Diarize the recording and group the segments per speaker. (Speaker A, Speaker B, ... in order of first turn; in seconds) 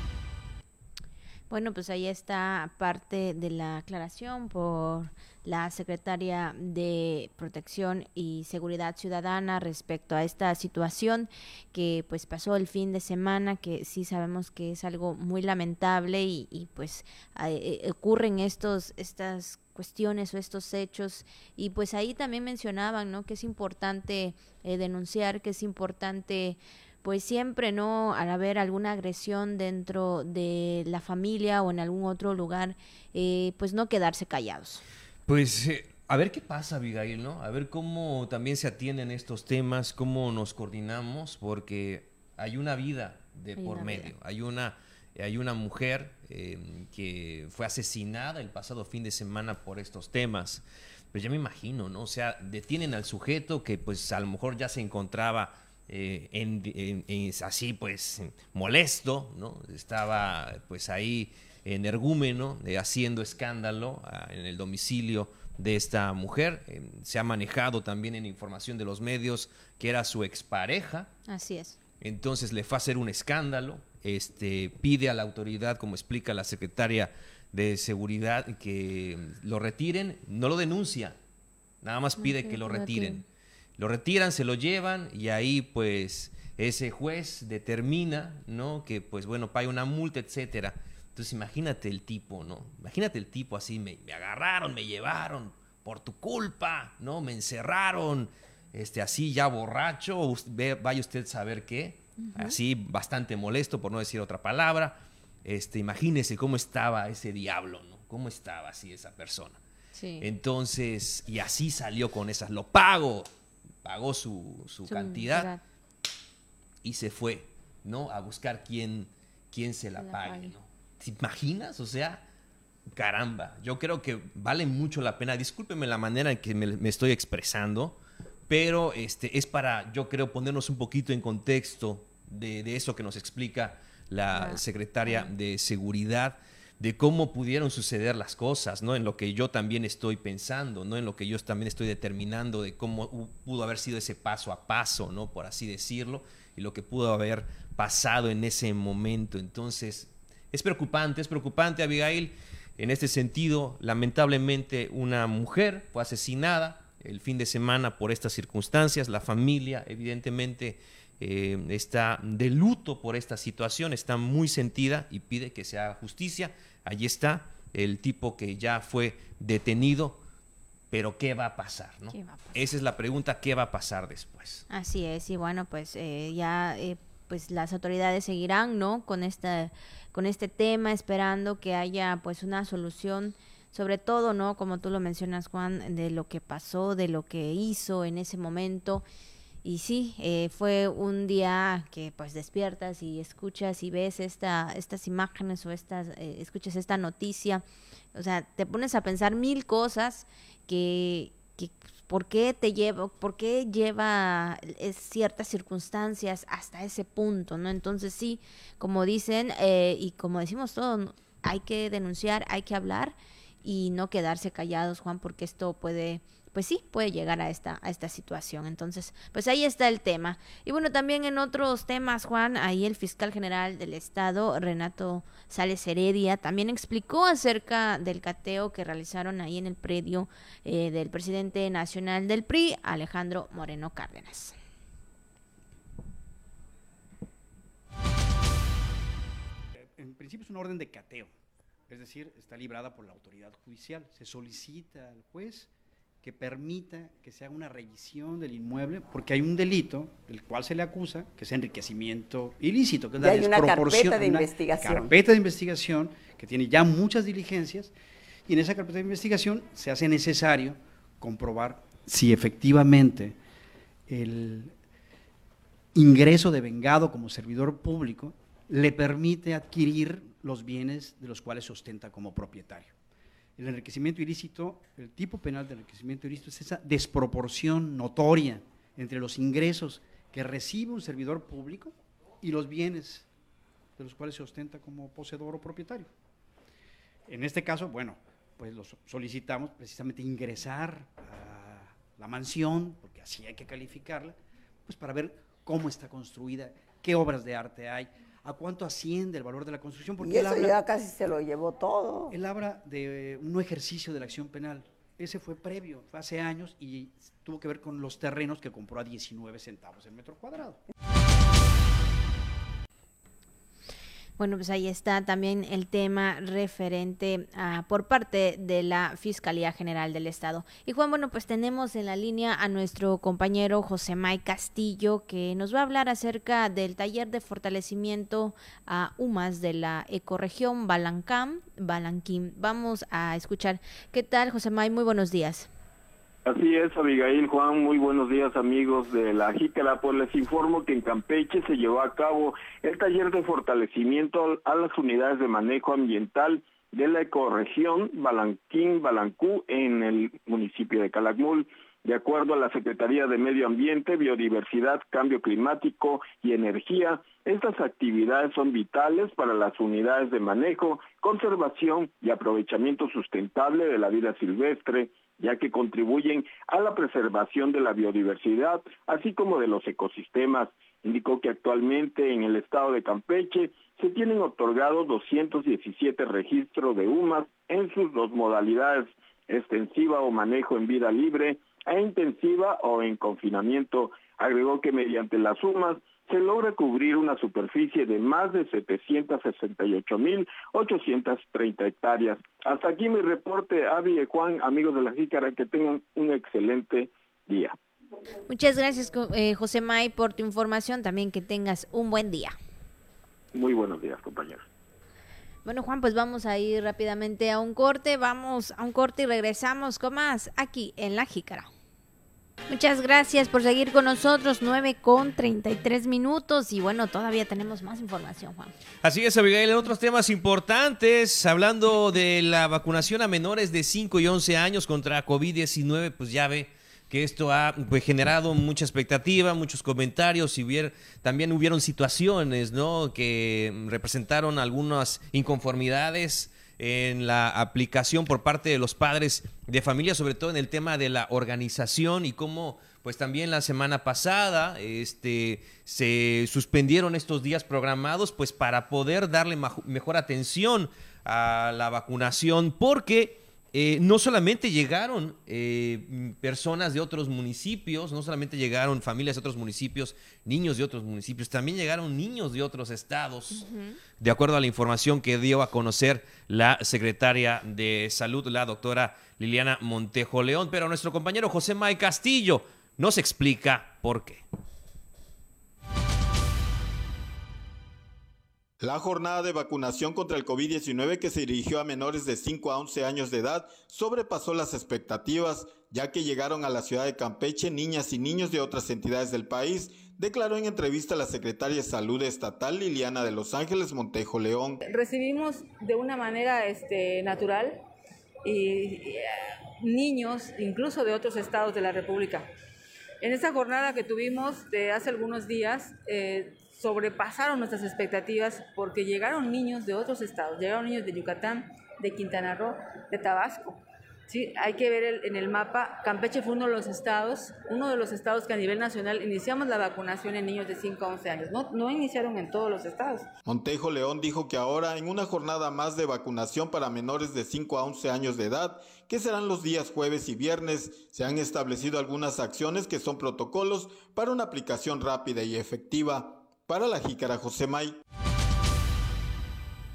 Speaker A: 1.5-34.8, 43.6-44.1, 71.3-71.8, 82.2-83.2, 102.2-102.6, 109.9-110.3, 114.9-115.6, 120.0-120.5, 134.3-135.3, 172.1-172.6, 174.7-189.0, 189.6-197.6, 198.1-234.5, 314.4-335.7, 398.5-402.5, 405.6-411.7, 412.7-418.7, 463.5-464.0
Speaker B: 35.3-71.1, 72.0-81.2, 81.8-83.2, 83.8-109.6, 110.2-113.3, 113.8-115.5, 116.8-122.2, 122.9-170.2, 170.9-174.6, 419.0-463.6, 464.2-474.4
Speaker C: 239.8-241.3, 241.9-245.7, 246.2-257.9, 258.5-263.4, 264.1-264.7, 265.9-272.9, 273.6-283.3, 284.0-286.1, 287.3-300.8, 302.3-310.8
Speaker D: 253.2-255.1, 300.2-302.3
Speaker E: 336.4-397.7, 403.5-404.6
Speaker F: 478.8-494.8, 523.5-538.0
Speaker G: 494.9-497.8, 498.4-502.5, 503.2-523.3